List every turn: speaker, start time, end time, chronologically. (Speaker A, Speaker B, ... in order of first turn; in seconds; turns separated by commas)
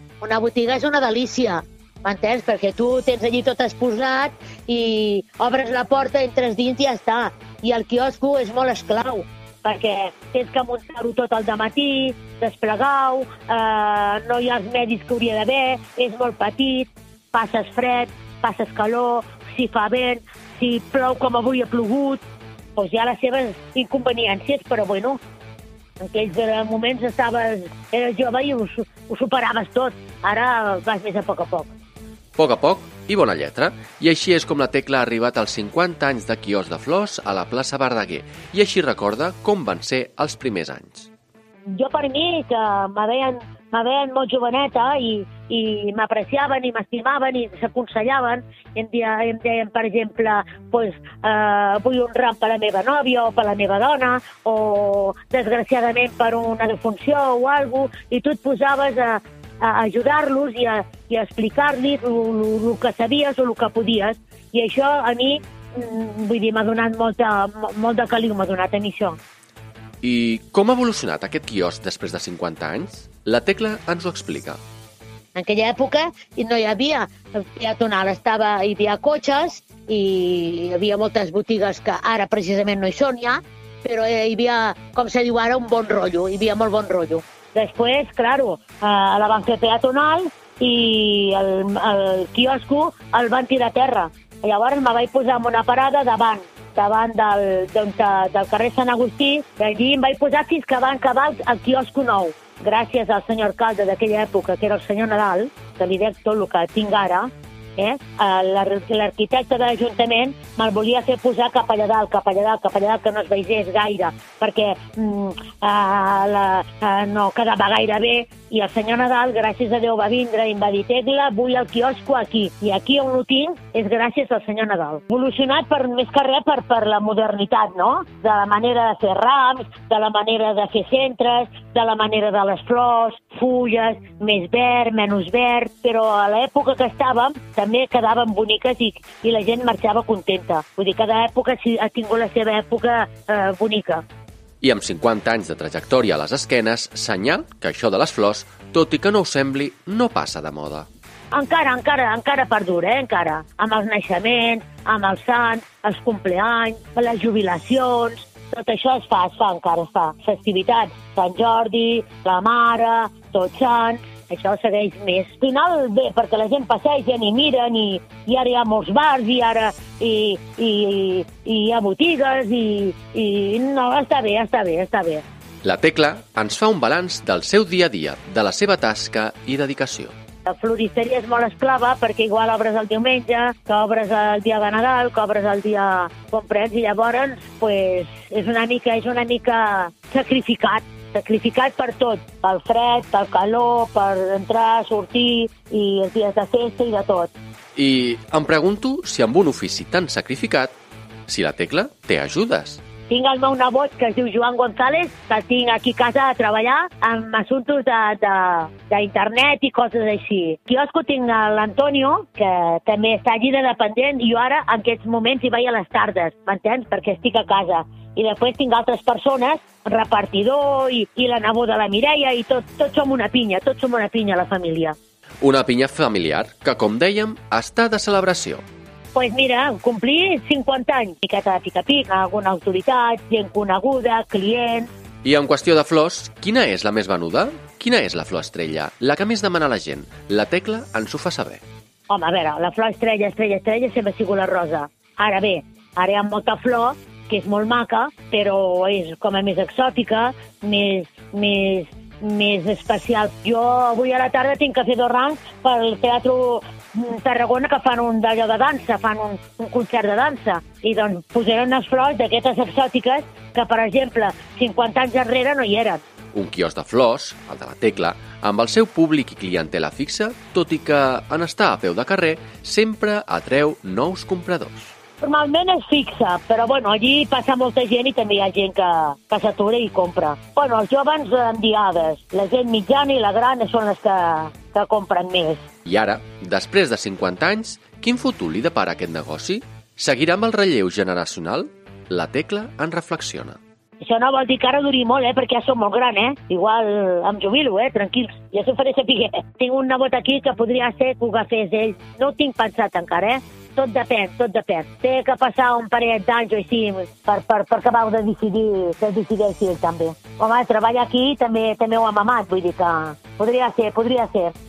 Speaker A: 0.2-22.2, Speaker A: 22.8-25.2, Speaker A: 26.0-31.7, Speaker B: 32.4-41.1, Speaker A: 41.7-69.2, Speaker B: 70.0-74.6, Speaker A: 75.3-144.0, Speaker B: 144.6-150.9, Speaker A: 151.3-175.2, Speaker B: 175.6-180.2, Speaker A: 180.5-197.3, Speaker B: 197.8-200.7, Speaker B: 201.3-202.8, Speaker A: 203.1-225.0, Speaker B: 225.4-228.6, Speaker A: 229.2-234.9, Speaker B: 235.2-241.6, Speaker A: 242.1-266.0, Speaker B: 266.3-274.9, Speaker A: 275.2-285.7, Speaker B: 285.9-293.6, Speaker A: 294.0-314.5